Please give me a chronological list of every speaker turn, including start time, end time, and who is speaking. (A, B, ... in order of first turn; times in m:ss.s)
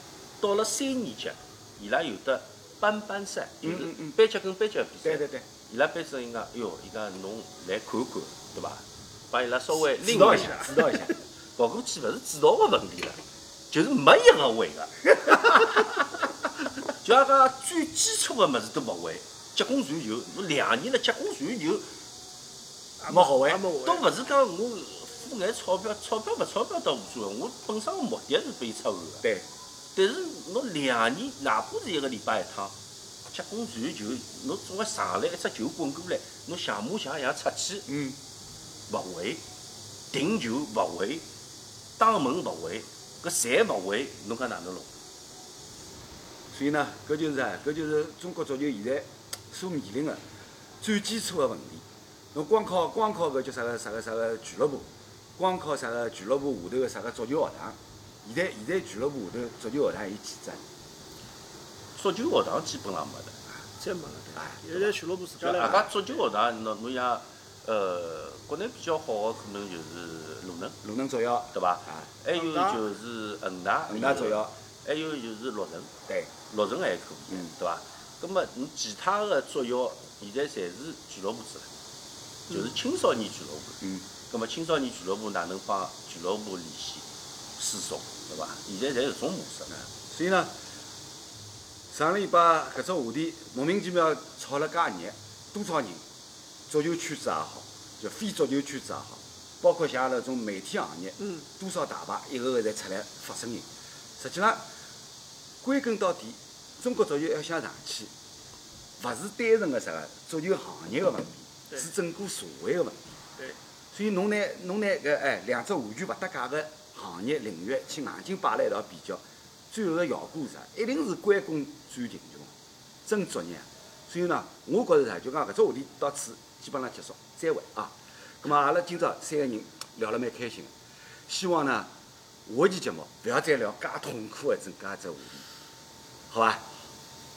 0:00.4-0:13.2 A
0:03.6-0:04.2 B
0:05.0-0:05.4 B
0:09.8-0:11.1 B
0:10.3-0:10.6 C
0:13.7-0:15.9 A
0:16.9-0:21.9 A
0:23.0-0:24.0 C
0:23.1-0:23.6 B
0:23.8-0:29.2 A
0:29.2-0:29.5 B
0:29.9-0:32.7 A
0:33.3-0:37.8 A
0:37.9-0:38.2 B
0:38.9-0:39.4 A
0:40.1-0:41.2 A
0:42.0-0:44.9 A
0:46.5-0:50.2 B
0:50.8-0:51.8 B
0:52.3-1:00.6 B
1:01.9-1:03.4 A
1:03.8-1:05.9 C
1:04.4-1:05.8 B
1:05.6-1:10.8 A
1:10.8-1:12.1 B
1:11.5-1:15.9 A
1:12.3-1:12.8 C
1:13.9-1:14.5 B
1:16.4-1:21.7 A
1:22.5-1:27.0 A
1:23.8-1:24.1 B
1:27.6-1:29.9 A
1:30.1-1:30.5 B
1:31.9-1:36.0 B
1:36.7-1:43.6 B
1:44.2-1:44.6 B
1:45.6-1:48.1 B
1:49.0-1:53.0 B
1:53.9-2:02.5 B
2:03.0-2:10.7 B
2:11.3-2:11.9 B
2:12.4-2:15.4 B
2:16.3-2:16.7 B